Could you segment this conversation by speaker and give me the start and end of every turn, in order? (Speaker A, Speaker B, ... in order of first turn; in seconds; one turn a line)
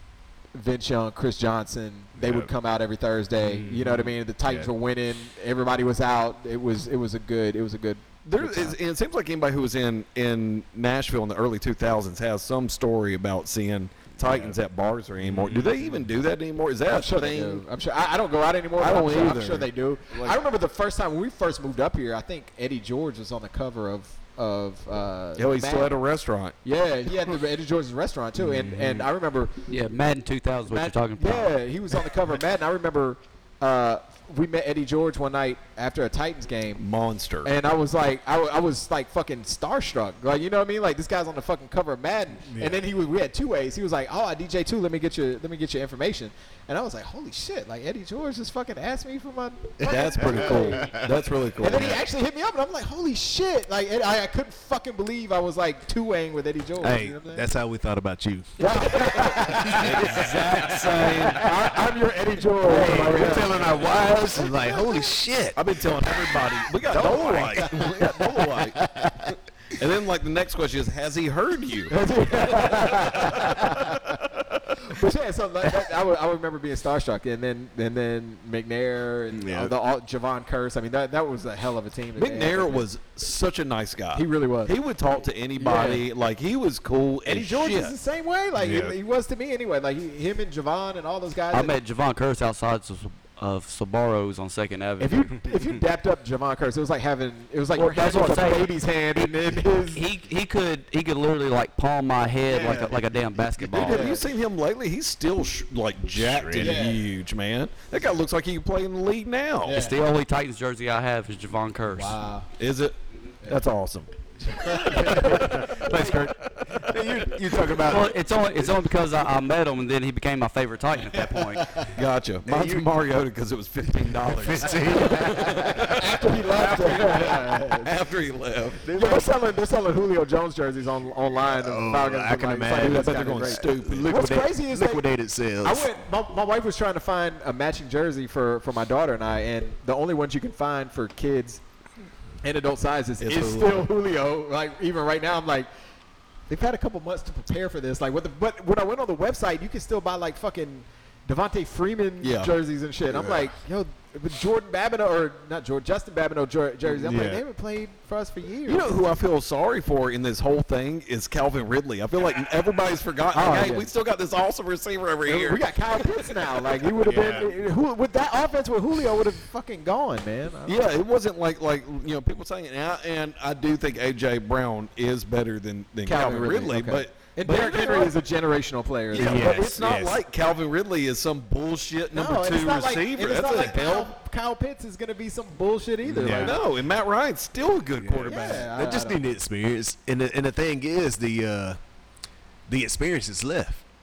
Speaker A: 0.5-8.8
Speaker B: 2.2-2.5
Speaker B: 3.4-4.7
Speaker C: 8.2-17.6
Speaker B: 14.2-14.6
Speaker B: 15.3-15.7
Speaker A: 16.9-25.9
Speaker C: 18.8-20.4
Speaker C: 25.4-26.6
Speaker A: 26.6-29.6
Speaker B: 28.3-29.1
Speaker D: 29.7-31.6
Speaker A: 30.7-36.8
Speaker C: 36.8-37.5
Speaker A: 37.4-50.9
Speaker B: 42.5-42.8
Speaker B: 49.8-51.2
Speaker C: 49.8-52.0
Speaker A: 51.6-57.5
Speaker B: 56.8-61.8
Speaker A: 58.6-60.1
Speaker C: 59.2-61.6
Speaker A: 61.3-63.7
Speaker B: 62.5-69.3
Speaker C: 65.5-68.8
Speaker A: 66.9-68.2
Speaker C: 69.7-73.9
Speaker A: 71.9-74.2
Speaker A: 74.8-82.8
Speaker B: 79.3-79.7
Speaker C: 82.2-87.9
Speaker A: 84.1-84.7
Speaker A: 85.6-86.0
Speaker A: 87.2-91.7
Speaker B: 88.6-89.0
Speaker D: 91.5-95.4
Speaker A: 95.0-100.0
Speaker D: 97.7-99.3
Speaker D: 99.8-104.1
Speaker A: 102.5-103.0
Speaker C: 103.6-109.8
Speaker A: 103.7-104.2
Speaker B: 106.1-106.8
Speaker A: 106.5-107.0
Speaker A: 109.6-110.0
Speaker D: 109.7-112.2
Speaker A: 111.9-112.5
Speaker C: 112.6-114.1
Speaker A: 114.5-116.3
Speaker B: 114.8-118.1
Speaker D: 117.8-121.8
Speaker C: 121.9-128.8
Speaker B: 122.5-122.9
Speaker B: 124.0-127.4
Speaker A: 125.8-127.9
Speaker B: 128.8-129.3
Speaker A: 128.9-135.1
Speaker B: 131.5-135.9
Speaker C: 132.7-134.1
Speaker A: 135.6-141.6
Speaker A: 142.4-145.7
Speaker C: 143.2-143.9
Speaker A: 146.5-159.0
Speaker C: 152.2-152.5
Speaker B: 153.1-153.5
Speaker B: 156.8-157.4
Speaker C: 158.7-165.6
Speaker A: 163.3-163.9
Speaker A: 165.2-170.8
Speaker B: 167.0-167.5
Speaker C: 170.7-178.2
Speaker A: 176.0-179.5
Speaker C: 179.1-184.1
Speaker B: 179.1-180.2
Speaker A: 182.1-186.6
Speaker B: 186.0-186.6
Speaker C: 186.2-188.7
Speaker B: 188.0-191.8
Speaker A: 188.2-189.2
Speaker B: 192.7-193.8